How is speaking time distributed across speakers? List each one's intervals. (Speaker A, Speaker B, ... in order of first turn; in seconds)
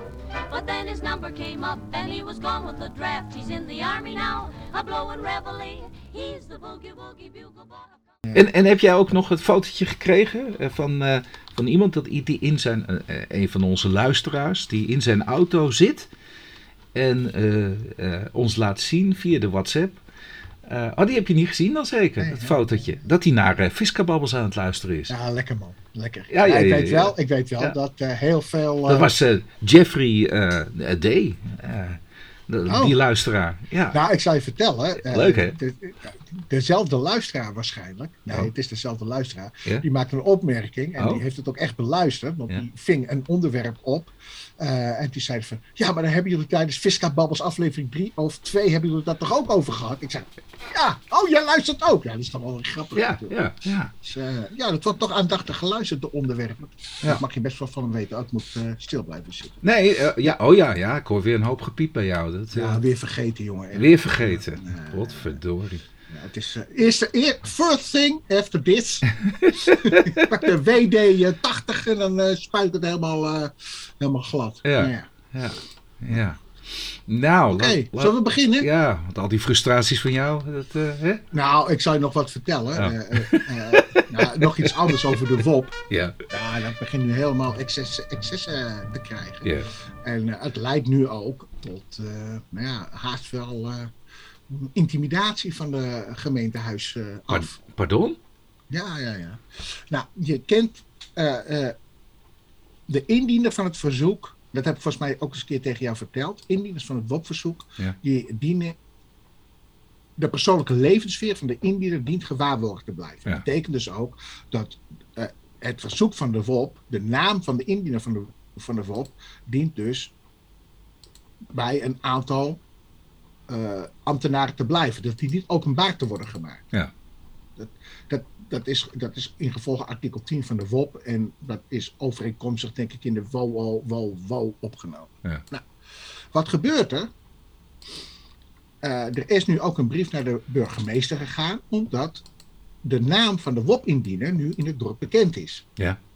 Speaker A: 0.5-8.0
Speaker B: 8.3-16.1, 16.9-20.0, 20.6-25.1, 26.3-27.7, 28.9-34.0, 35.0-35.6, 52.9-53.9, 59.6-62.8, 63.7-65.8, 69.2-70.3, 74.6-81.2, 82.8-85.2, 85.9-86.2, 97.3-98.2
Speaker C: 22.2-22.8, 25.1-29.1, 32.6-33.0, 33.9-53.4, 54.0-59.6, 62.5-65.4, 66.1-75.1, 77.5-78.7, 81.3-85.7, 86.3-89.5, 90.0-93.9, 94.5-97.5, 98.7-101.7, 102.9-108.8, 110.2-120.1, 121.5-122.6, 123.5-126.6, 127.6-135.7, 136.3-137.1, 138.8-142.2, 142.8-145.7